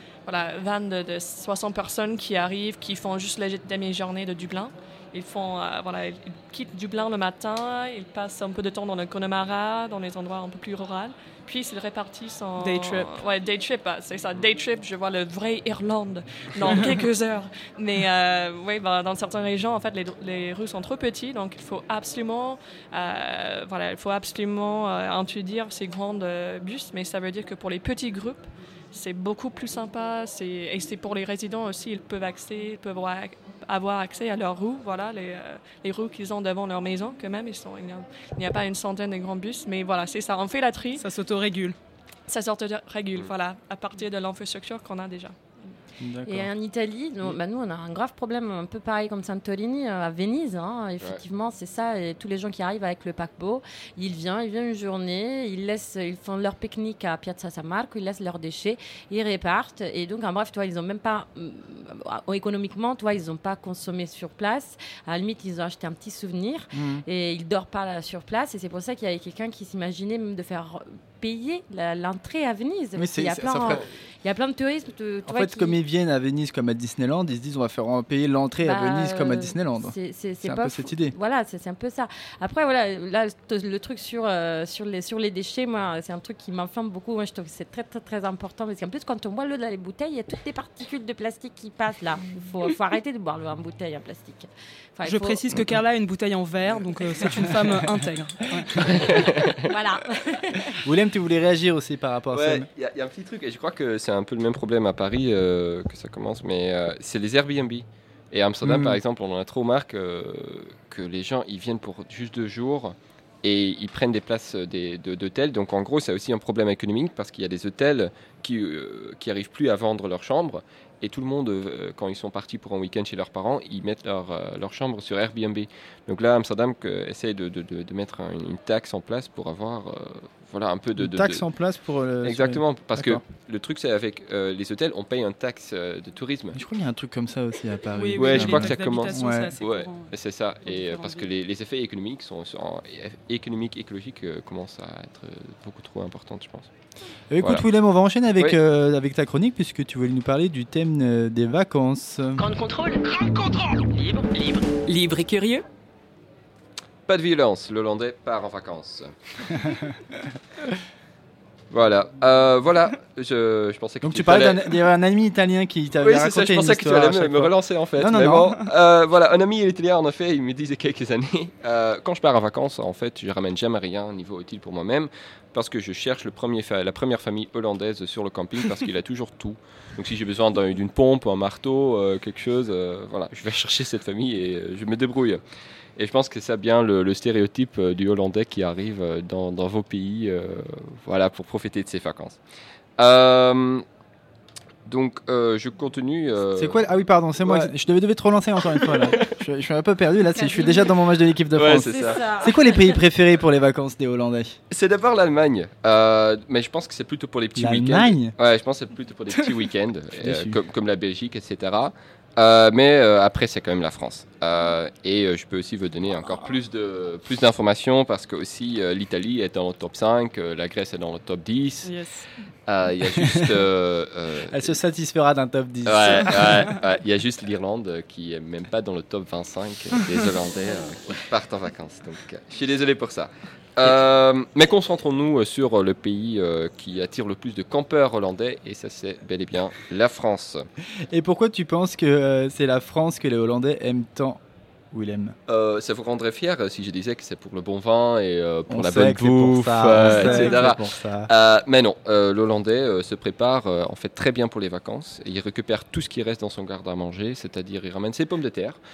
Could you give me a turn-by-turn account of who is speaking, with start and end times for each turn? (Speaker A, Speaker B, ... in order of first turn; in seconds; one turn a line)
Speaker A: 0.2-41.0
Speaker B: 12.6-13.2
Speaker B: 41.0-41.8
Speaker A: 42.3-45.4
Speaker C: 46.0-46.5
Speaker D: 46.2-75.8
Speaker C: 66.7-67.0
Speaker C: 73.0-73.8
Speaker C: 75.3-81.2
Speaker D: 78.6-95.4
Speaker B: 95.0-98.9
Speaker E: 98.9-99.6
Speaker D: 99.6-100.7
Speaker C: 100.8-102.7
Speaker E: 102.3-131.4
Speaker C: 108.6-109.0
Speaker C: 131.0-133.2
Speaker E: 132.2-136.6
Speaker C: 136.5-139.5
Speaker B: 137.9-141.3
Speaker E: 138.2-146.7
Speaker C: 147.3-152.4
Speaker E: 147.4-147.6
Speaker F: 152.4-155.6
Speaker E: 157.1-159.7
Speaker E: 161.7-164.8
Speaker C: 164.0-168.6
Speaker E: 166.0-185.4
Speaker E: 186.0-192.4
Speaker E: 193.0-193.8
Speaker E: 194.8-196.8
Speaker C: 196.6-204.6
Speaker E: 197.4-197.7
Speaker E: 198.8-199.3
Speaker D: 200.3-200.9
Speaker E: 201.5-202.2
Speaker D: 201.7-202.9
Speaker E: 204.7-222.0
Speaker C: 207.6-208.3
Speaker C: 210.2-210.6
Speaker B: 221.8-222.2
Speaker E: 222.7-224.7
Speaker C: 223.2-223.6
Speaker C: 224.5-226.7
Speaker E: 225.8-240.7
Speaker C: 241.1-245.3
Speaker E: 245.5-258.8
Speaker C: 248.7-251.3
Speaker B: 250.2-250.4